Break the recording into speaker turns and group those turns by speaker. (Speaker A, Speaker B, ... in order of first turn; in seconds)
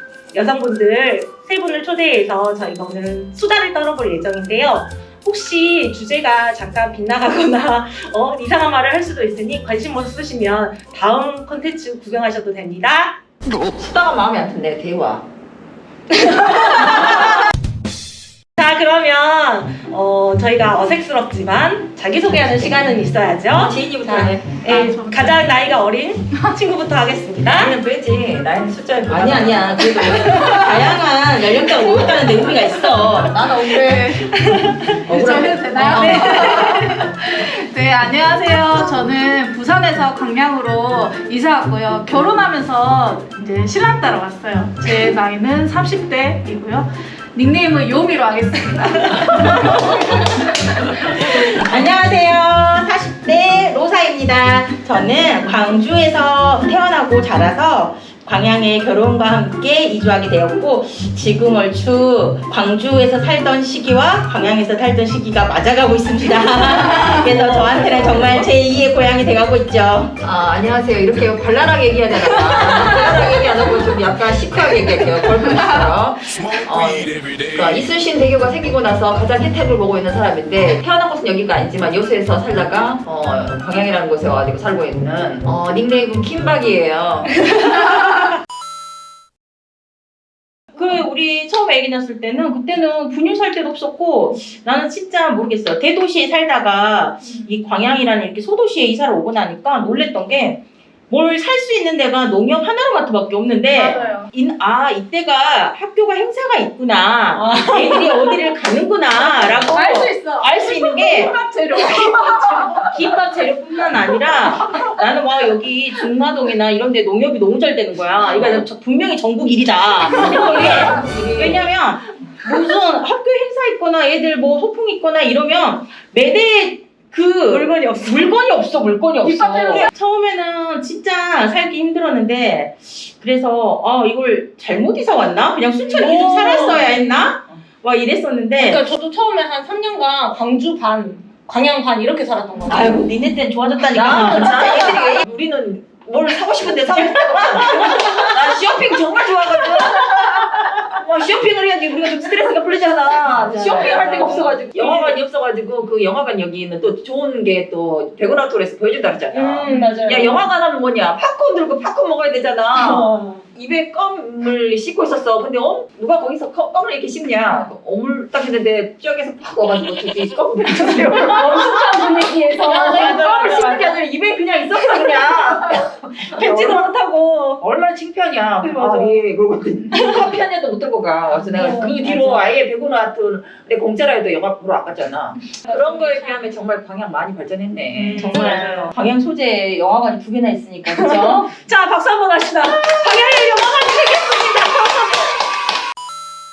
Speaker A: 0.3-13.2, 16.1-17.3, 18.6-27.8, 30.0-30.8, 31.7-32.2, 34.5-35.0, 35.9-36.9, 67.0-68.3, 107.3-108.4, 120.3-121.3, 127.5-128.4, 129.2-129.9, 135.9-137.0, 138.6-143.1, 144.1-145.2, 147.2-148.9, 153.2-155.1, 159.3-160.5, 162.7-163.5, 170.9-174.0, 174.8-177.6, 178.6-179.2, 179.9-180.2, 181.4-182.5, 185.6-186.4, 187.9-188.9, 190.8-195.2
Speaker B: 13.8-15.2, 22.3-24.9, 27.4-30.5, 33.3-33.9, 35.0-36.3, 67.6-68.5, 70.2-87.4, 118.3-118.7, 120.2-121.5, 129.4-129.9, 143.9-171.9, 172.6-176.9, 177.6-188.9, 189.7-191.4, 193.0-193.7
Speaker C: 24.7-25.5, 30.0-30.9, 31.8-51.4, 97.2-97.6, 103.6-104.3, 109.2-113.0, 113.8-114.8
Speaker D: 29.1-33.4, 35.2-36.2, 51.2-70.2, 72.8-73.2, 90.8-111.3, 112.9-138.8, 142.7-145.1, 146.9-148.3, 153.5-155.1, 188.1-191.5